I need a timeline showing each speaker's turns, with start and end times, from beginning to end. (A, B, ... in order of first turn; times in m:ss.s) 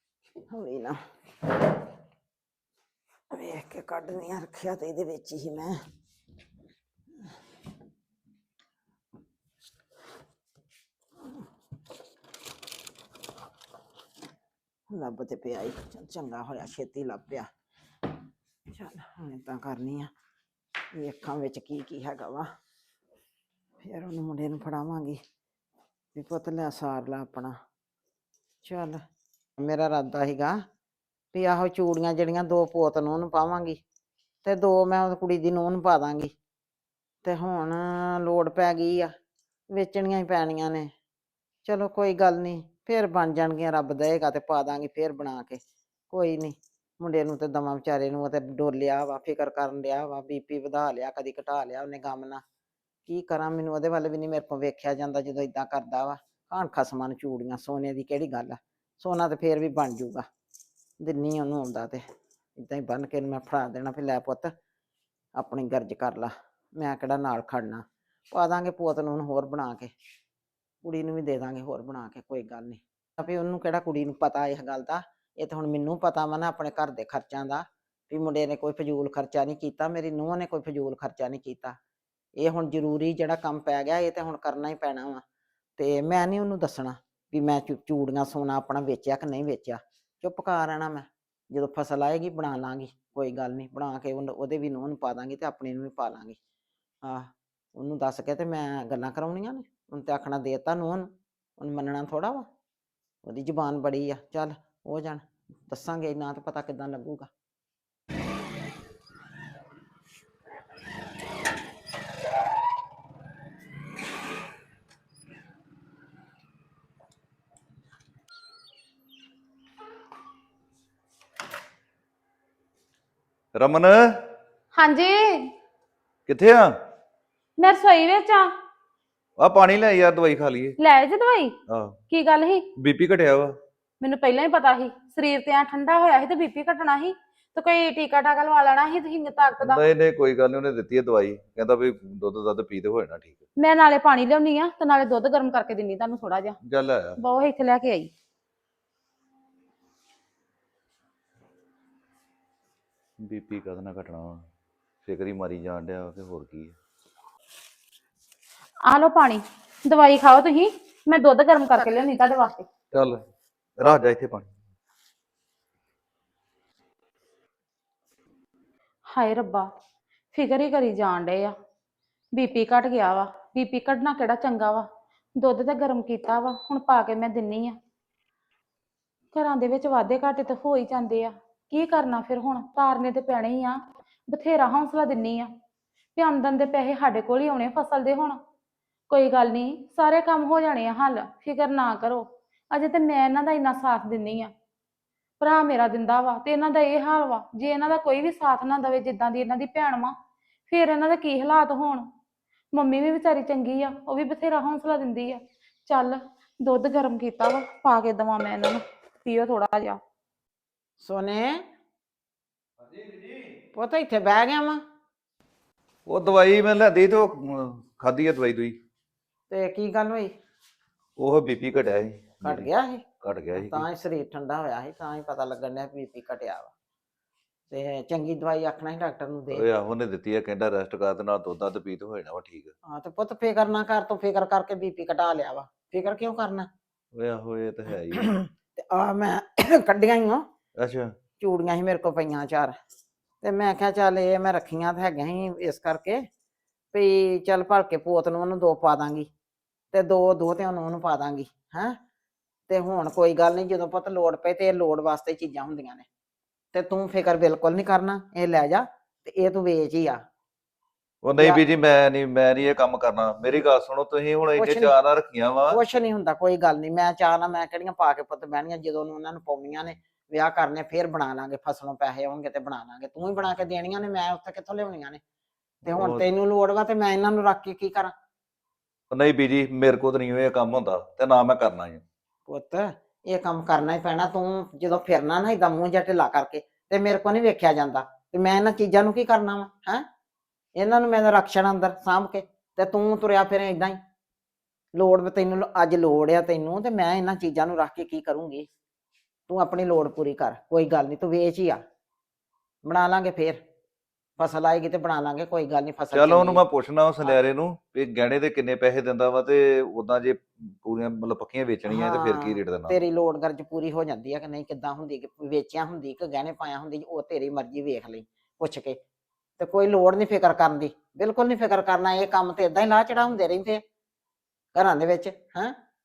0:00.5-0:01.0 A
0:03.3-0:05.8 A
0:14.9-0:17.5 A
0:18.7-0:20.1 A
0:20.9-0:22.5 A
0:23.8-0:25.2 A
0:26.2-0:27.6 A
0:28.6-0:29.0 A
0:29.6-0:30.6 A
0:31.3-0:33.8 A
0:34.4-0:36.3 A
0:37.2-0:39.1 A
0:39.7-0:40.9 A
0:41.6-0:52.4 A
0:53.1-1:00.3 A
1:01.0-1:02.0 A
1:02.6-1:04.5 A
1:05.4-1:09.9 A
1:10.8-1:21.8 A
1:22.4-1:25.2 A
1:25.8-1:36.4 A
1:37.0-1:42.5 A
1:43.2-1:47.3 A
2:03.6-2:04.2 B
2:04.7-2:05.5 C
2:06.3-2:06.7 B
2:07.6-2:08.5 C
2:09.4-2:10.8 B
2:10.8-2:11.6 C
2:11.7-2:12.0 B
2:12.1-2:12.7 C
2:12.8-2:13.6 B
2:14.0-2:19.8 C
2:19.6-2:23.4 B
2:23.6-2:26.6 C
2:26.6-2:27.2 B
2:27.2-2:28.1 C
2:33.2-2:34.5 B
2:35.0-2:36.8 B
2:38.8-2:42.7 C
2:42.9-2:43.2 B
2:43.8-2:44.5 B
2:49.1-2:49.7 C
2:50.3-2:51.5 C
2:52.3-2:57.8 C
2:59.3-3:05.5 C
3:06.2-3:08.4 C
3:09.1-3:14.5 C
3:15.4-3:20.1 C
3:20.7-3:22.1 C
3:22.7-3:30.0 C
3:31.0-3:31.6 A
3:32.8-3:33.6 B
3:33.7-3:34.8 A
3:36.1-3:38.8 B
3:39.5-3:40.3 A
3:41.2-3:42.7 B
3:42.4-3:46.7 A
3:43.2-3:43.9 B
3:47.7-3:49.6 A
3:49.5-3:52.7 B
3:52.8-3:56.7 A
3:57.1-3:58.3 B
3:58.1-4:00.4 A
4:00.8-4:01.1 B
4:01.4-4:02.8 A
4:03.4-4:06.2 A
4:06.9-4:09.3 A
4:09.9-4:12.0 A
4:12.7-4:16.1 A
4:16.7-4:20.2 A
4:21.2-4:25.8 B
4:21.4-4:21.6 A
4:24.6-4:24.9 A
4:25.7-4:35.2 A
4:35.8-4:38.1 A
4:35.9-4:36.3 B
4:39.1-4:42.0 B
4:42.5-4:50.1 A
4:50.8-4:54.0 A
4:55.0-4:58.7 A
4:59.5-5:01.8 A
5:02.8-5:03.6 A
5:04.4-5:06.6 A
5:06.1-5:13.0 B
5:11.9-5:19.0 A
5:19.6-5:23.8 A
5:24.7-5:25.8 A